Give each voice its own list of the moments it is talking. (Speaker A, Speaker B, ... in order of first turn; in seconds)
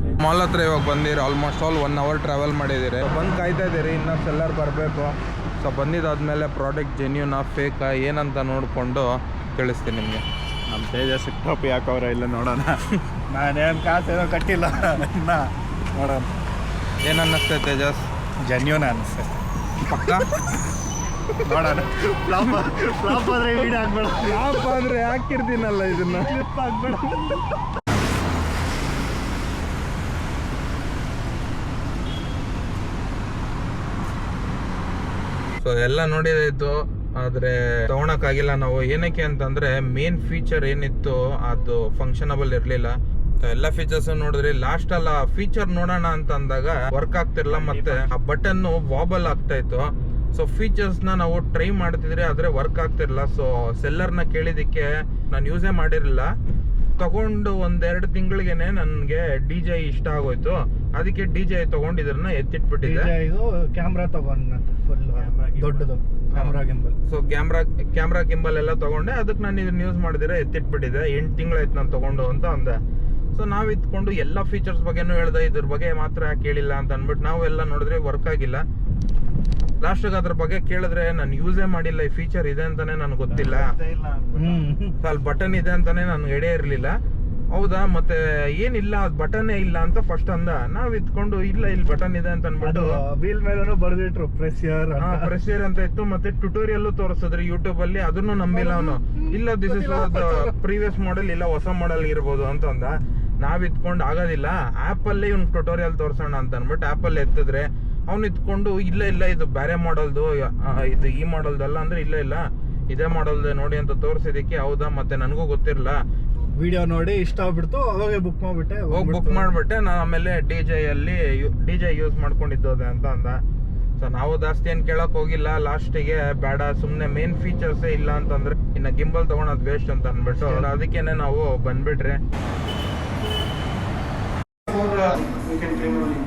Speaker A: 0.2-10.2, 17.0-18.1, 19.8-20.3, 22.2-23.4, 24.2-27.4, 35.6-56.3, 57.0-63.1, 67.1-72.8, 73.3-78.6, 79.8-83.7, 85.0-87.0, 87.5-93.0, 95.0-116.0, 118.9-123.4, 124.0-132.2
Speaker B: 10.7-12.9, 47.5-48.0, 65.1-65.9, 83.3-84.7
Speaker C: 13.3-16.3, 18.4-19.4, 21.4-24.6, 26.3-27.1, 62.8-67.0, 84.3-85.0, 92.6-95.3, 98.5-100.5, 116.6-119.5, 135.7-135.9